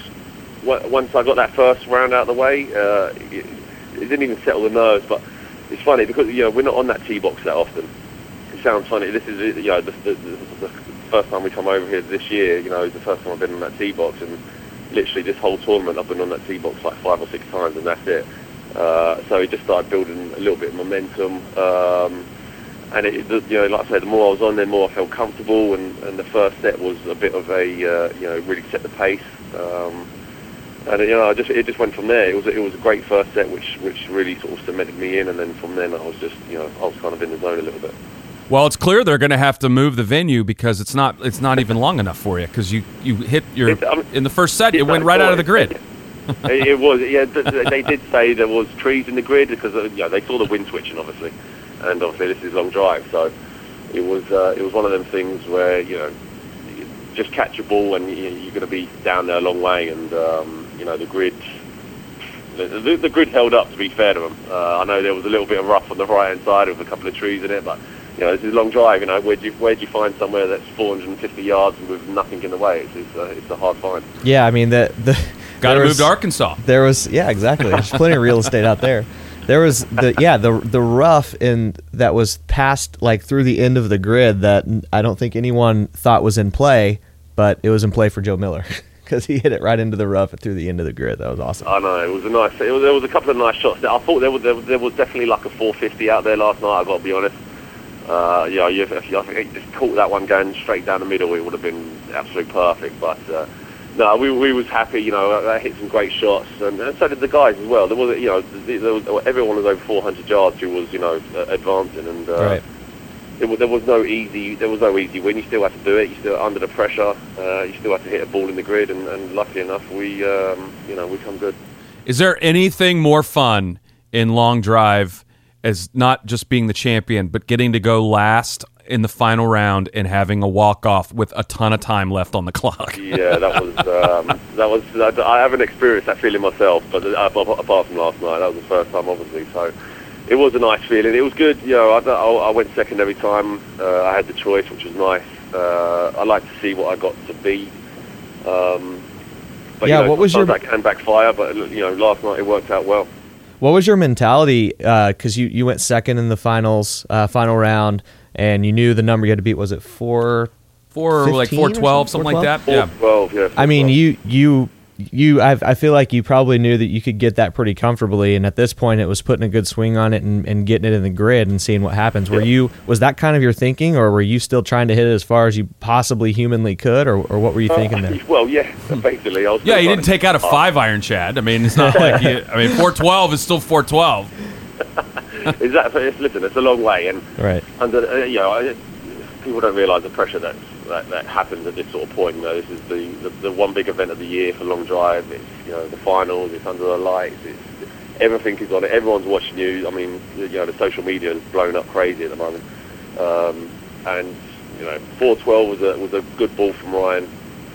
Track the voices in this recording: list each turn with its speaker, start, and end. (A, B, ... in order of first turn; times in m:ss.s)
0:00.6-0:07.9 A
0:08.5-0:14.4 A
0:14.9-0:22.3 A
0:22.9-0:30.1 A
0:30.8-0:38.0 A
0:38.5-0:45.8 B
0:43.7-0:44.1 A
0:44.7-0:45.8 A
0:46.4-0:53.3 A
0:53.9-0:56.1 A
0:56.7-1:01.4 A
1:02.5-1:14.1 A
1:14.2-1:31.7 C
1:15.6-1:16.6 B
1:31.6-1:37.4 A
1:38.0-1:52.6 A
1:52.4-1:52.6 C
1:53.4-2:01.6 A
2:02.0-2:13.4 B
2:13.0-2:19.7 A
2:20.3-2:27.8 A
2:28.4-2:29.0 A
2:29.8-2:33.1 A
2:29.8-2:30.6 C
2:33.6-2:40.5 C
2:40.9-2:42.9 B
2:41.2-2:42.6 C
2:42.6-2:44.0 A
2:43.6-2:58.2 C
2:57.7-3:00.6 A
2:59.6-3:04.3 B
3:01.7-3:02.8 C
3:05.2-3:22.6 A
3:07.4-3:07.6 C
3:23.2-3:27.3 A